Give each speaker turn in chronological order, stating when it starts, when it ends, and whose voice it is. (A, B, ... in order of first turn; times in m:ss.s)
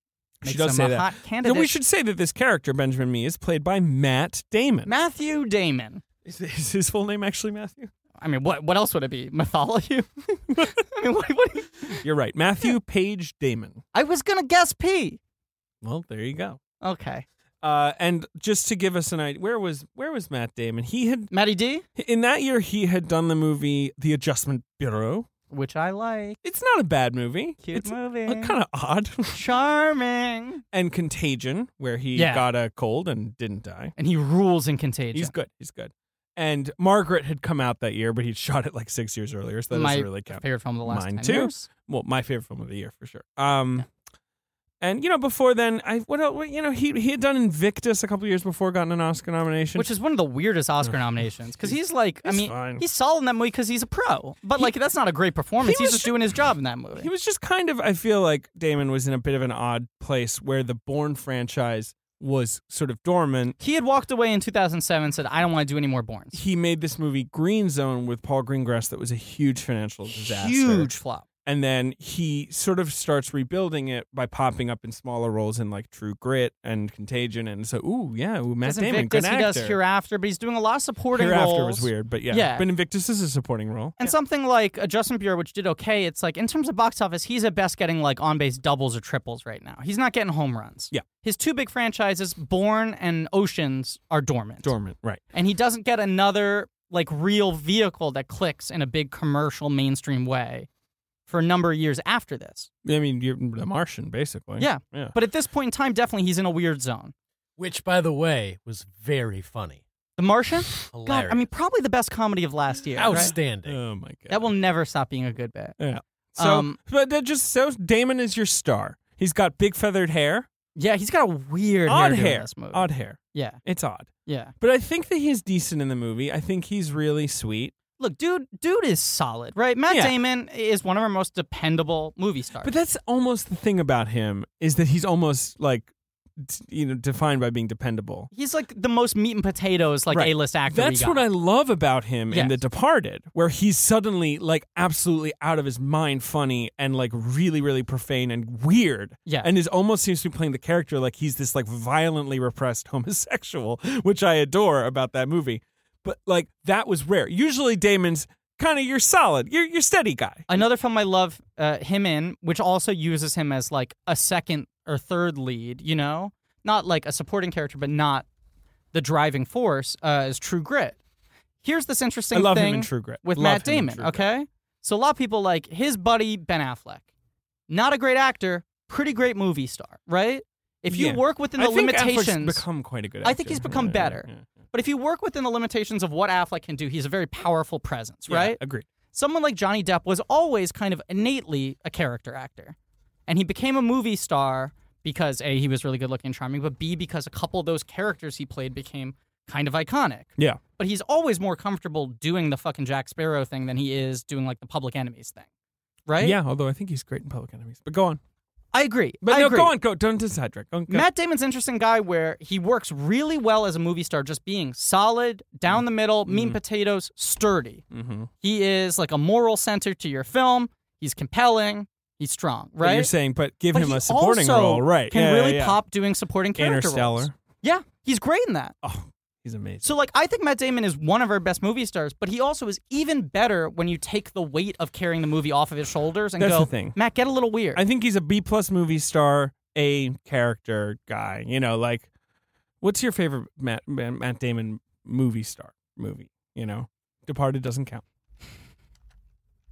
0:00.4-0:04.9 A
0:00.4-0:01.7 B
0:04.8-0:06.0 B
0:06.2-0:07.9 A
0:08.2-0:12.0 B
0:12.0-0:13.8 A
0:13.9-0:15.2 B
0:15.8-0:16.6 A
0:16.8-0:17.2 B
0:17.6-0:21.3 A
0:21.3-0:21.8 B
0:22.0-0:25.3 A
0:25.5-0:26.4 B
0:26.4-0:29.4 A
0:27.6-0:28.6 B
0:29.3-0:30.6 B
0:30.7-0:33.9 A
0:32.1-0:32.5 B
0:34.0-0:35.3 B
0:35.1-0:43.9 A
0:39.7-0:41.7 B
0:44.8-0:49.9 A
0:49.7-0:57.1 B
0:51.6-0:52.8 A
0:55.6-0:56.3 A
0:57.0-1:03.6 A
1:03.6-1:06.4 B
1:06.3-1:19.8 A
1:10.1-1:11.2 B
1:18.6-1:22.6 B
1:21.1-1:24.1 A
1:24.0-1:34.7 B
1:34.6-1:35.2 A
1:35.3-1:40.7 B
1:41.3-1:42.7 B
1:42.8-1:45.1 A
1:44.6-1:47.1 B
1:47.6-1:49.8 C
1:50.2-1:53.3 B
1:50.9-1:51.4 C
1:53.0-1:53.8 C
1:53.0-1:54.5 A
1:54.3-1:55.8 B
1:55.8-2:00.5 A
1:56.4-1:56.8 B
2:00.7-2:03.6 B
2:01.9-2:07.7 A
2:04.2-2:04.5 B
2:08.0-2:12.8 B
2:09.9-2:10.1 A
2:12.6-2:18.3 A
2:18.3-2:21.2 B
2:20.1-2:40.5 A
2:22.3-2:22.6 B
2:40.5-2:48.2 B
2:48.9-2:51.0 B
2:51.6-2:57.0 B
2:52.3-2:54.2 A
2:57.7-3:02.6 B
3:00.9-3:04.4 A
3:03.2-3:08.6 B
3:08.3-3:08.8 A
3:09.1-3:12.7 B
3:13.3-3:25.5 B
3:26.0-3:26.4 B
3:26.2-3:28.2 A
3:28.7-3:29.7 B
3:29.2-3:31.1 A
3:30.9-3:37.8 B
3:36.3-3:36.6 A
3:37.9-3:38.3 A
3:38.4-3:43.1 B
3:42.8-3:45.8 A
3:43.7-3:48.7 B
3:46.6-3:47.3 A
3:48.8-3:49.8 A
3:49.8-3:57.8 B
3:56.4-3:57.0 A
3:57.7-4:02.1 A
4:02.8-4:08.0 A